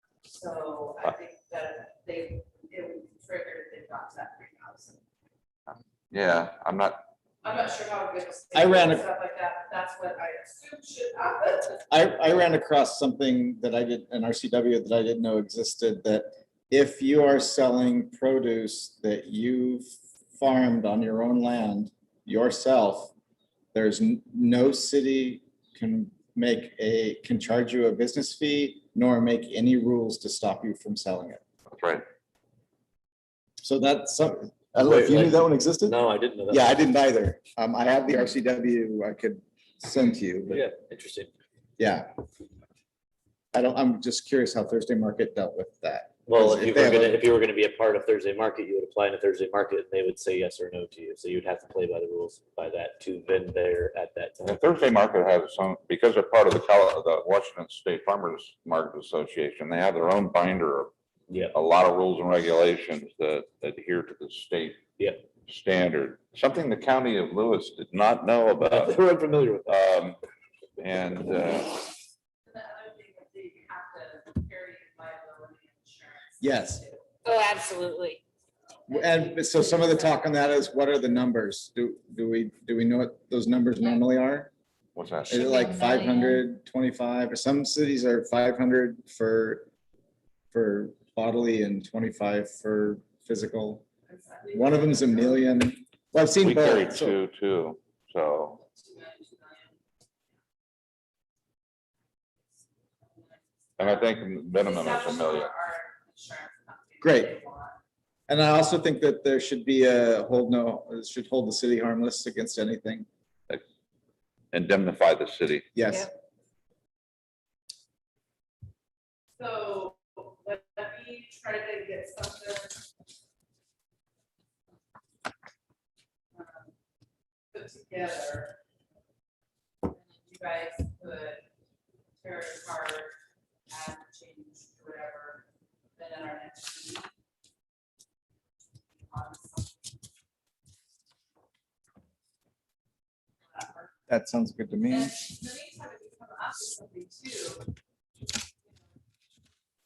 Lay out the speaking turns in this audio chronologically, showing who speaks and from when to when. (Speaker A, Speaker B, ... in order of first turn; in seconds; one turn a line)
Speaker A: 0.3-5.0
Speaker B: 6.1-7.0
Speaker A: 7.4-11.9
Speaker C: 8.6-9.1
Speaker C: 11.9-23.1
Speaker C: 23.7-31.4
Speaker B: 31.7-32.0
Speaker C: 33.6-40.7
Speaker D: 34.8-36.8
Speaker D: 40.5-41.3
Speaker C: 41.8-42.1
Speaker C: 43.5-47.2
Speaker D: 46.3-54.7
Speaker B: 54.4-60.9
Speaker D: 61.3-61.5
Speaker B: 61.5-64.8
Speaker B: 65.5-69.0
Speaker D: 68.6-69.8
Speaker B: 69.7-70.2
Speaker B: 70.8-71.9
Speaker A: 72.5-77.1
Speaker C: 76.4-76.8
Speaker E: 77.2-78.2
Speaker A: 78.8-80.2
Speaker C: 78.9-84.5
Speaker B: 85.0-85.4
Speaker E: 85.3-86.4
Speaker C: 85.3-89.7
Speaker C: 90.5-93.9
Speaker A: 94.1-95.7
Speaker C: 94.5-97.2
Speaker B: 96.4-98.6
Speaker A: 98.6-99.7
Speaker A: 103.2-107.8
Speaker B: 103.8-105.5
Speaker C: 107.0-107.3
Speaker C: 108.3-113.1
Speaker B: 114.5-115.8
Speaker C: 115.8-116.1
Speaker A: 119.4-122.9
Speaker A: 126.3-126.7
Speaker A: 127.5-128.6
Speaker A: 129.8-131.4
Speaker A: 132.2-133.1
Speaker A: 133.7-135.4
Speaker A: 136.0-137.1
Speaker A: 139.0-139.9
Speaker A: 143.5-143.9
Speaker C: 144.1-145.1
Speaker A: 144.9-147.7